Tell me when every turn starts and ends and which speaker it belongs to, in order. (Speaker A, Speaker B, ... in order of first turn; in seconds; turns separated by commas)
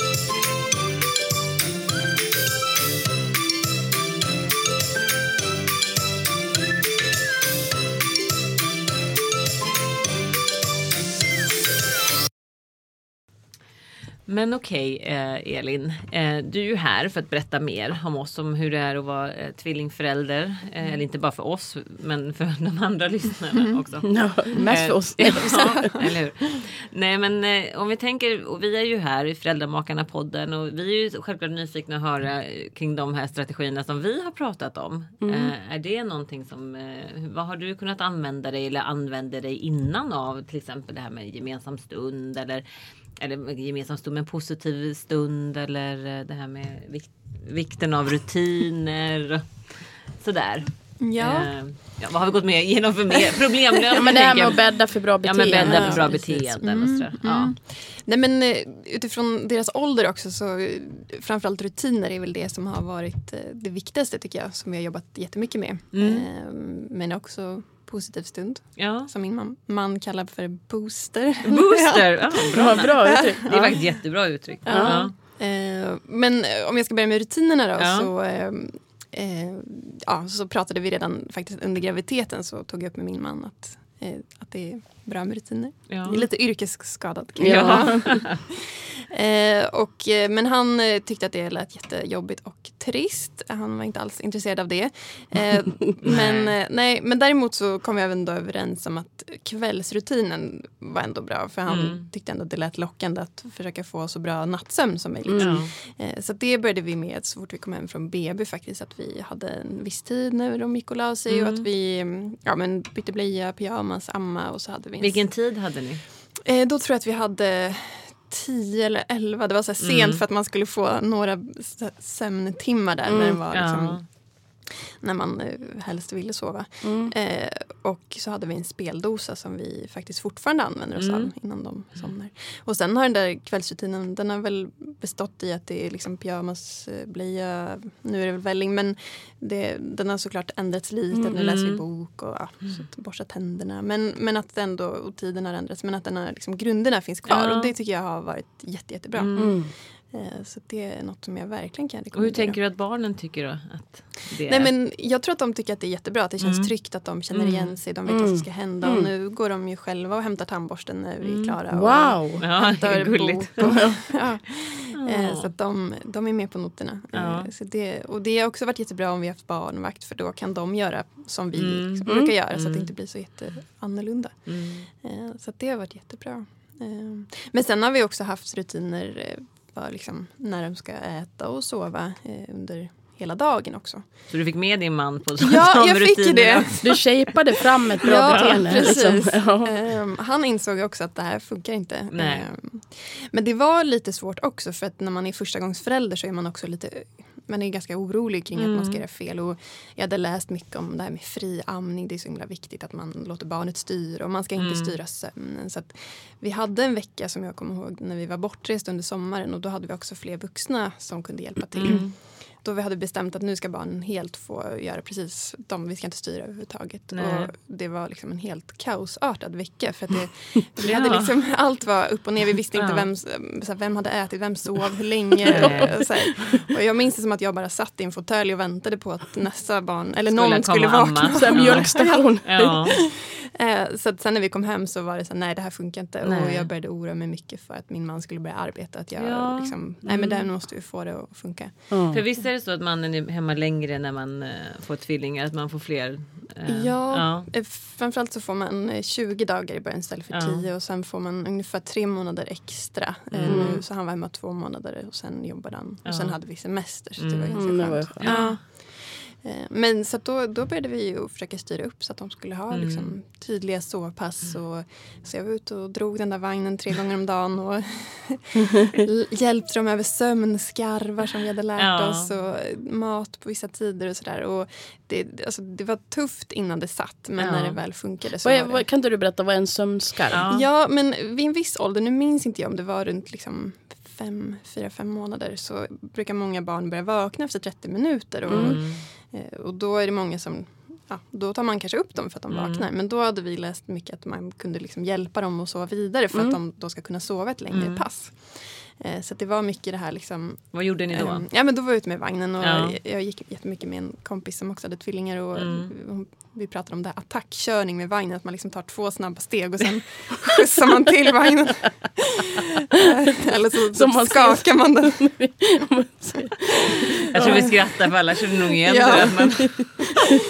Speaker A: 14.2-42.6, Speaker B: 24.1-25.9, Speaker C: 25.4-26.1, Speaker B: 35.2-35.5, Speaker A: 43.1-57.5, Speaker C: 51.0-51.5, Speaker C: 53.9-54.5, Speaker B: 54.0-56.4, Speaker C: 55.5-74.0, Speaker A: 65.9-66.2, Speaker A: 68.8-69.1, Speaker A: 71.4-75.1, Speaker B: 72.5-73.7, Speaker C: 74.6-115.5, Speaker B: 74.7-75.1, Speaker A: 77.8-78.1, Speaker A: 85.9-86.2, Speaker B: 87.4-88.1, Speaker A: 87.4-88.4, Speaker A: 96.0-96.5, Speaker A: 101.7-102.0, Speaker B: 105.3-105.6, Speaker A: 105.4-105.7, Speaker A: 111.3-111.7, Speaker A: 115.0-116.0, Speaker C: 116.4-124.0, Speaker A: 119.8-120.2, Speaker B: 123.0-123.4, Speaker A: 123.5-124.0, Speaker C: 124.6-152.6, Speaker B: 126.8-127.1, Speaker A: 130.9-131.3, Speaker A: 141.1-141.8, Speaker A: 147.3-147.7, Speaker A: 149.1-149.5, Speaker B: 149.4-149.7, Speaker A: 152.1-154.7, Speaker C: 154.4-184.0, Speaker A: 156.4-156.7, Speaker A: 157.3-157.8, Speaker B: 158.1-159.1, Speaker A: 161.2-161.6, Speaker B: 161.7-162.4, Speaker A: 162.4-163.7, Speaker B: 163.6-163.9, Speaker A: 164.9-165.5, Speaker A: 167.1-167.5, Speaker A: 171.6-172.9, Speaker B: 172.1-172.3, Speaker A: 174.5-174.9, Speaker A: 184.3-186.9, Speaker C: 185.4-187.0, Speaker B: 186.8-189.7, Speaker C: 188.0-241.9, Speaker A: 188.1-188.9, Speaker A: 192.1-192.5, Speaker A: 198.6-199.0, Speaker A: 204.6-204.9, Speaker A: 211.8-212.2, Speaker A: 217.1-217.5, Speaker A: 220.8-221.3, Speaker A: 222.8-223.1, Speaker A: 225.5-226.0, Speaker B: 225.5-226.0, Speaker A: 230.3-233.0, Speaker B: 231.3-232.8, Speaker A: 236.2-236.7, Speaker A: 239.2-240.4, Speaker B: 241.9-242.2, Speaker A: 242.1-247.5, Speaker C: 246.7-278.9, Speaker A: 250.3-250.6, Speaker A: 253.3-253.8, Speaker B: 253.4-253.8, Speaker A: 256.0-256.4, Speaker A: 257.2-258.6, Speaker B: 257.5-258.4, Speaker A: 262.7-263.1, Speaker A: 271.8-272.3, Speaker A: 277.4-277.8, Speaker B: 278.4-280.5, Speaker A: 280.3-280.7, Speaker C: 280.4-315.6, Speaker A: 288.5-289.0, Speaker B: 288.5-288.8, Speaker A: 292.5-292.9, Speaker B: 296.3-296.6, Speaker A: 297.7-298.1, Speaker A: 300.7-301.5, Speaker A: 302.6-303.0, Speaker A: 305.5-305.9, Speaker B: 313.9-317.8, Speaker A: 317.3-320.1, Speaker C: 317.4-317.7, Speaker C: 318.8-319.9, Speaker B: 319.5-319.8